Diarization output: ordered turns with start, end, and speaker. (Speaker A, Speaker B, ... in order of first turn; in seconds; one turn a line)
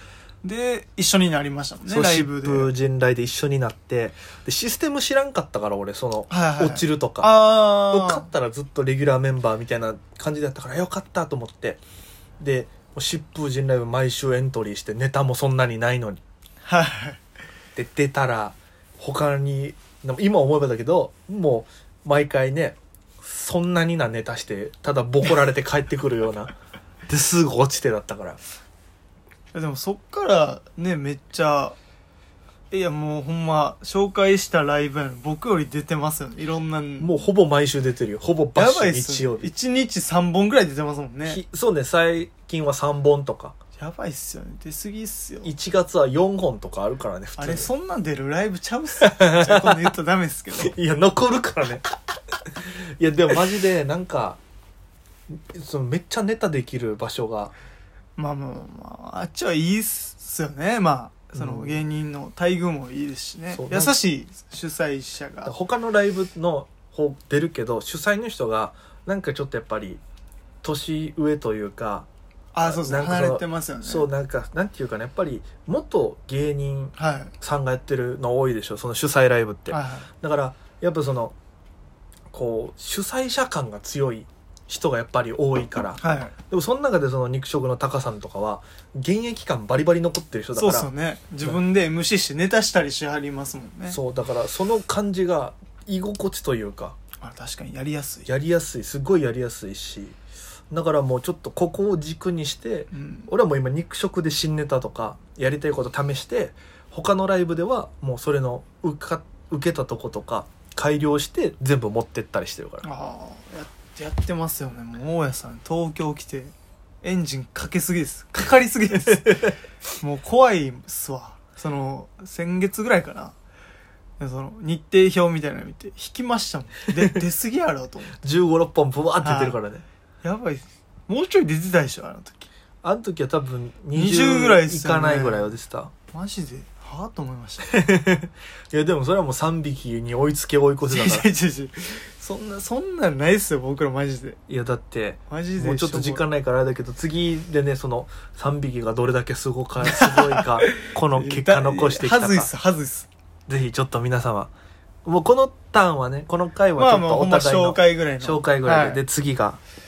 Speaker A: 0.4-2.7
Speaker B: 1.9-11.8
Speaker A: 6.3-8.3
Speaker B: 12.4-16.2
Speaker A: 16.6-17.2
Speaker B: 17.8-26.5
Speaker B: 27.1-28.4
Speaker A: 29.5-31.8
Speaker A: 32.7-37.2
Speaker B: 37.0-39.5
Speaker A: 38.5-41.4
Speaker B: 41.3-43.5
Speaker A: 43.8-45.5
Speaker B: 45.4-47.7
Speaker A: 47.4-50.8
Speaker B: 49.0-49.9
Speaker B: 50.5-51.9
Speaker B: 52.6-54.4
Speaker B: 55.3-57.5
Speaker A: 58.2-65.5
Speaker B: 61.4-61.8
Speaker B: 63.5-64.0
Speaker B: 65.5-70.0
Speaker B: 70.6-72.1
Speaker A: 72.5-74.1
Speaker B: 72.6-81.3
Speaker A: 77.0-77.3
Speaker A: 79.7-80.1
Speaker B: 82.3-90.9
Speaker A: 86.0-86.3
Speaker A: 90.5-94.0
Speaker B: 93.9-97.0
Speaker A: 97.2-98.3
Speaker B: 98.3-100.2
Speaker B: 100.7-112.9
Speaker A: 102.9-103.3
Speaker A: 112.8-123.4
Speaker A: 124.2-128.2
Speaker B: 128.2-129.8
Speaker A: 129.2-129.6
Speaker A: 130.2-132.5
Speaker B: 132.8-135.9
Speaker A: 133.9-135.5
Speaker A: 136.1-137.9
Speaker B: 137.7-141.3
Speaker A: 140.9-144.4
Speaker B: 144.5-152.5
Speaker A: 145.3-146.2
Speaker A: 149.8-153.1
Speaker B: 153.5-154.5
Speaker B: 155.1-159.6
Speaker A: 156.8-159.0